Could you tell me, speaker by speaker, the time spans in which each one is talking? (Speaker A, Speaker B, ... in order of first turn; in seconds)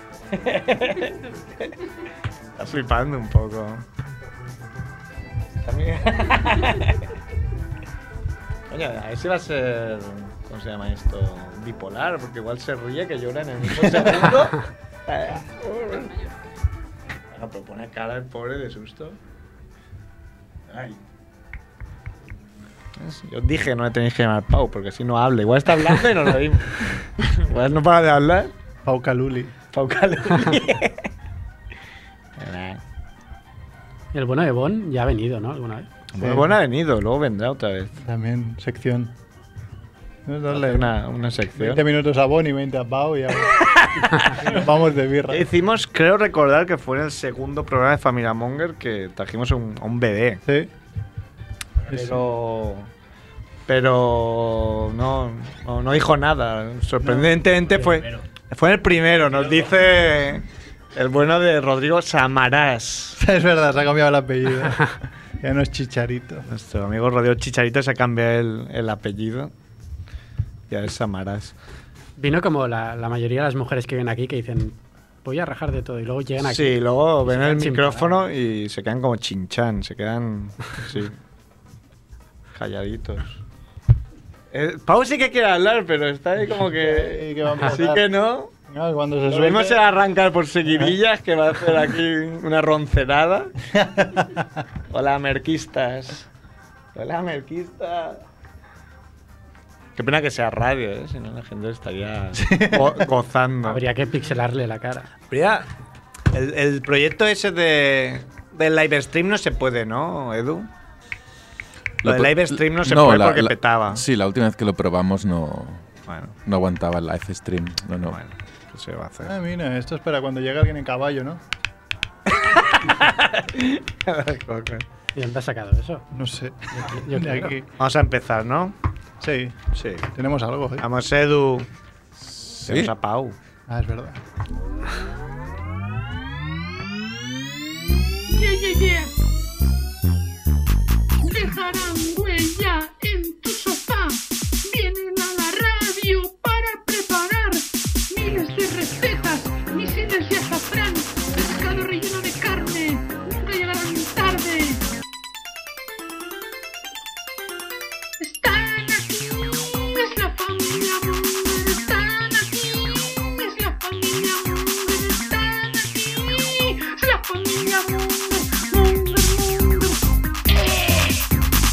Speaker A: 0.3-1.7, 2.5-3.8, 5.6-7.0, 8.7-16.2, 17.3-19.2, 20.7-21.0, 23.0-28.5, 29.7-31.1, 32.4-32.8, 36.2-38.0, 40.5-41.8, 43.7-44.5, 45.3-50.4, 51.8-52.9, 53.7-63.2, 66.5-69.5, 70.7-71.5, 76.4-81.2, 82.5-83.4, 84.5-88.5, 89.2-93.5, 94.9-96.3, 96.9-98.2, 99.9-103.8, 105.3-105.7, 106.3-110.7, 112.0-114.0, 116.1-116.3, 118.1-119.3, 122.3-124.8, 127.8-128.7, 129.7-130.1, 130.8-131.7, 132.7-133.3
Speaker B: 28.8-29.5, 36.2-36.5, 38.0-39.1, 40.2-40.9, 41.5-45.5, 50.5-50.7, 51.9-52.2, 57.0-57.3, 63.2-66.5, 86.6-88.1, 88.7-89.8, 90.6-91.0, 93.7-94.5, 102.3-103.1, 119.2-121.4, 126.1-127.7, 129.2-129.6, 130.1-130.8, 133.7-134.2
Speaker C: 34.1-35.9, 72.2-78.2, 103.6-105.1, 125.1-126.0, 126.7-127.5
Speaker D: 112.0-115.8, 116.5-118.2, 132.2-132.9
Speaker E: 138.3-139.1, 141.2-154.8, 158.2-159.4, 159.9-170.0